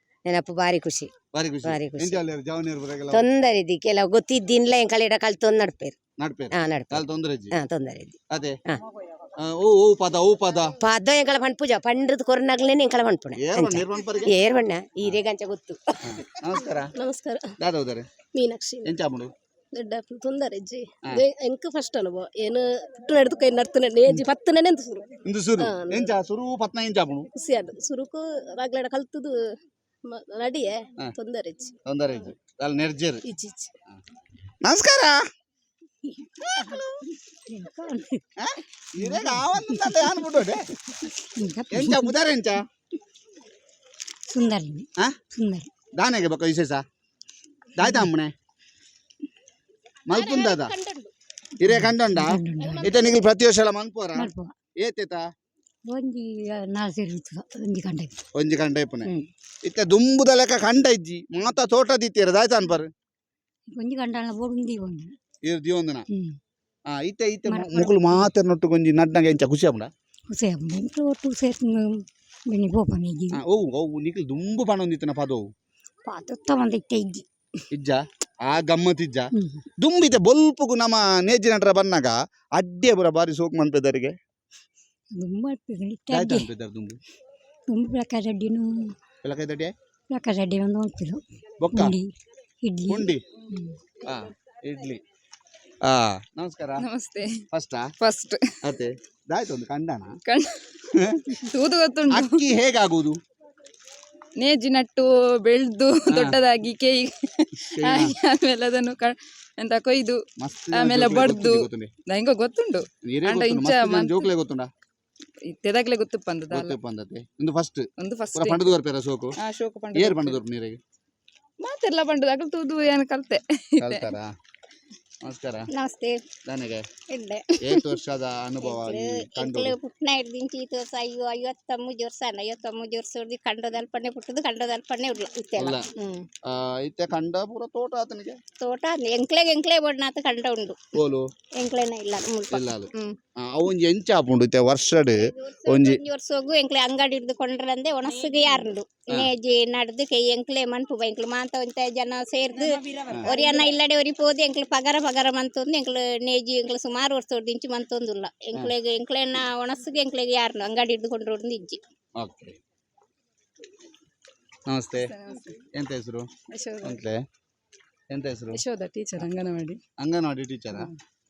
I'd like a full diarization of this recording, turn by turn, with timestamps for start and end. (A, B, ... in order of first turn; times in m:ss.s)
0:00.3-0:01.1 A
0:01.3-0:03.2 B
0:01.6-0:02.2 A
0:03.1-0:06.0 A
0:06.2-0:07.6 B
0:06.6-0:08.2 A
0:08.3-0:08.6 B
0:09.4-0:10.7 B
0:10.8-0:15.8 A
0:13.4-0:14.3 B
0:16.0-0:16.9 B
0:17.0-0:17.5 C
0:17.6-0:18.1 B
0:18.3-0:18.9 C
0:18.8-0:19.3 B
0:19.8-0:26.1 C
0:25.3-0:27.3 B
0:27.4-0:29.4 C
0:30.1-0:31.7 C
0:31.9-0:33.2 B
0:34.6-0:35.2 B
0:36.4-0:37.0 B
0:37.5-0:38.2 D
0:38.4-0:40.7 B
0:41.4-0:42.1 D
0:41.7-0:42.6 B
0:44.3-0:45.7 D
0:46.0-0:46.8 B
0:47.8-0:48.3 B
0:50.1-0:50.7 B
0:50.1-0:51.1 E
0:51.6-0:55.2 B
0:51.8-0:52.9 D
0:52.6-0:53.2 E
0:54.2-0:54.5 D
0:55.9-0:58.2 D
0:58.4-0:59.1 B
0:59.6-1:02.9 B
1:03.7-1:05.1 D
1:05.4-1:06.0 B
1:06.1-1:06.4 D
1:06.9-1:09.9 B
1:07.5-1:08.3 D
1:10.3-1:13.4 D
1:13.4-1:15.5 B
1:16.1-1:17.2 D
1:17.7-1:24.2 B
1:19.4-1:19.6 D
1:25.2-1:26.5 D
1:26.1-1:27.0 B
1:27.7-1:28.9 D
1:29.2-1:29.7 B
1:30.1-1:31.2 D
1:31.6-1:32.0 B
1:31.7-1:32.1 D
1:32.6-1:33.8 D
1:32.9-1:33.2 B
1:34.0-1:35.0 B
1:35.8-1:36.8 B
1:36.8-1:37.4 F
1:37.5-1:37.9 B
1:38.0-1:38.4 F
1:38.6-1:40.1 B
1:40.3-1:40.6 F
1:40.9-1:41.3 B
1:41.5-1:42.4 F
1:42.1-1:43.2 B
1:44.4-1:50.2 F
1:46.1-1:46.4 B
1:47.7-1:48.1 B
1:50.4-1:51.9 B
1:50.7-1:54.3 F
1:53.0-1:54.7 B
1:55.5-1:56.8 F
1:56.5-1:59.3 B
1:58.0-1:58.7 F
1:59.4-2:00.4 F
1:59.9-2:00.8 B
2:01.6-2:04.1 F
2:03.8-2:04.3 B
2:05.2-2:05.7 B
2:05.7-2:06.2 E
2:06.5-2:06.9 B
2:07.1-2:07.4 E
2:07.6-2:09.8 B
2:08.7-2:15.8 E
2:15.6-2:15.9 B
2:16.5-2:18.4 B
2:18.6-2:20.8 E
2:21.0-2:21.3 B
2:21.6-2:22.8 E
2:22.5-2:26.0 B
2:25.1-2:41.8 E
2:42.2-2:42.6 B
2:44.7-2:45.1 B
2:45.1-2:45.6 F
2:45.7-2:46.3 B
2:46.5-2:47.0 F
2:46.8-2:47.2 B
2:48.1-2:48.6 B
2:48.5-2:49.8 F
2:50.0-2:50.9 B